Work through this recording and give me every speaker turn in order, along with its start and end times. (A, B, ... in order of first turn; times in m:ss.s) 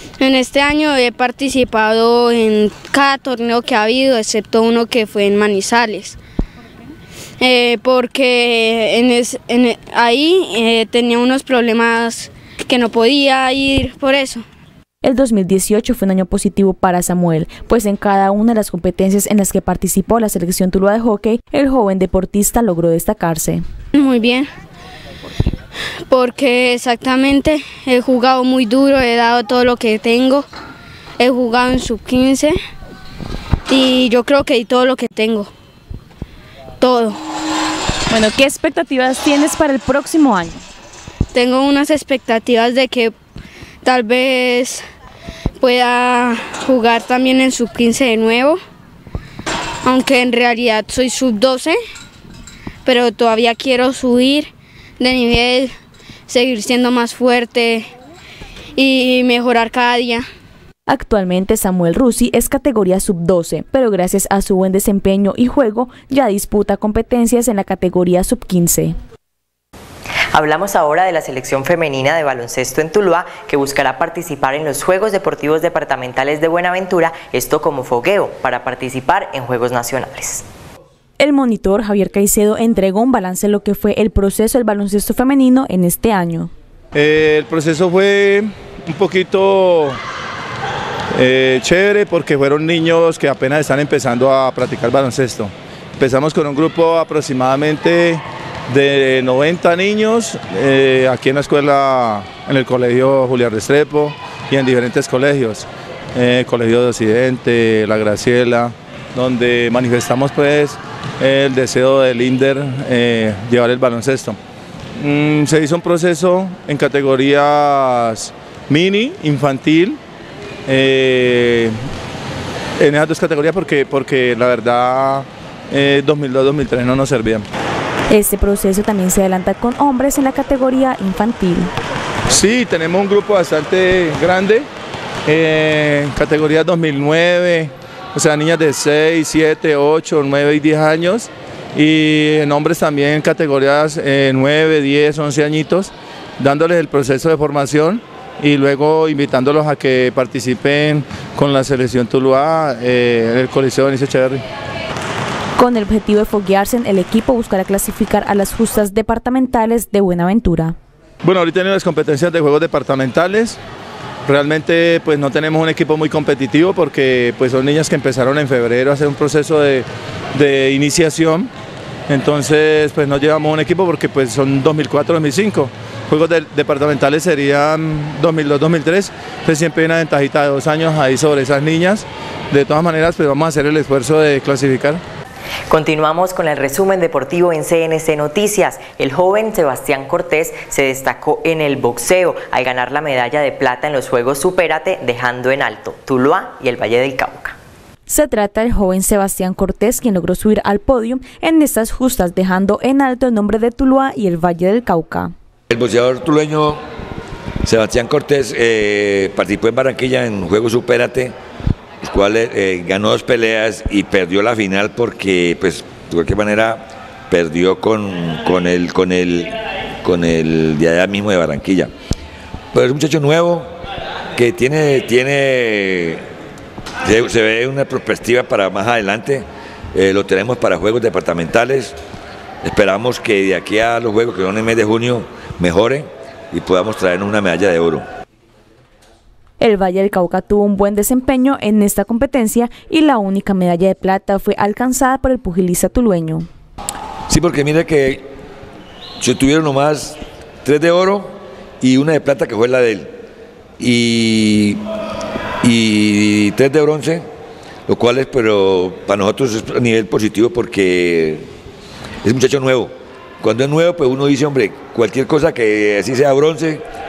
0:00.2-0:06.2 A
0:07.4-0:14.4 A
0:15.0-0:23.6 B
0:23.9-0:24.5 A
0:26.1-0:30.5 A
0:31.2-0:32.6 A
0:33.7-0:35.5 A
0:36.8-0:37.2 A
0:38.1-0:40.6 B
0:41.3-0:43.1 A
0:43.8-0:44.8 A
0:45.6-0:48.6 A
0:49.8-0:51.8 A
0:52.8-0:55.7 A
0:56.3-0:57.9 A
0:58.8-1:00.3 A
1:00.9-1:09.0 B
1:10.3-1:20.4 C
1:21.2-1:26.5 B
1:27.0-1:30.0 D
1:31.2-1:54.4 D
1:55.0-2:00.0 D
2:00.7-2:01.7 D
2:02.8-2:07.4 D
2:08.1-2:11.7 B
2:12.3-2:14.7 D
2:15.3-2:34.4 D
2:35.6-2:40.8 B
2:41.2-2:43.6 D
2:44.3-2:51.5 D
2:52.1-3:05.0 D
3:05.7-3:17.6 C
3:18.1-3:25.3 B
3:25.7-3:26.8 E
3:27.6-3:31.4 E
3:32.0-3:41.9 E
3:42.7-3:43.7 E
3:44.4-3:46.2 E
3:47.0-3:52.0 E
3:52.6-3:58.1 E
3:59.6-4:06.5 B
4:07.3-4:08.3 E
4:09.2-4:13.1 E
4:13.8-4:14.8 E
4:15.6-4:17.3 E
4:17.9-4:21.5 E
4:22.2-4:26.8 E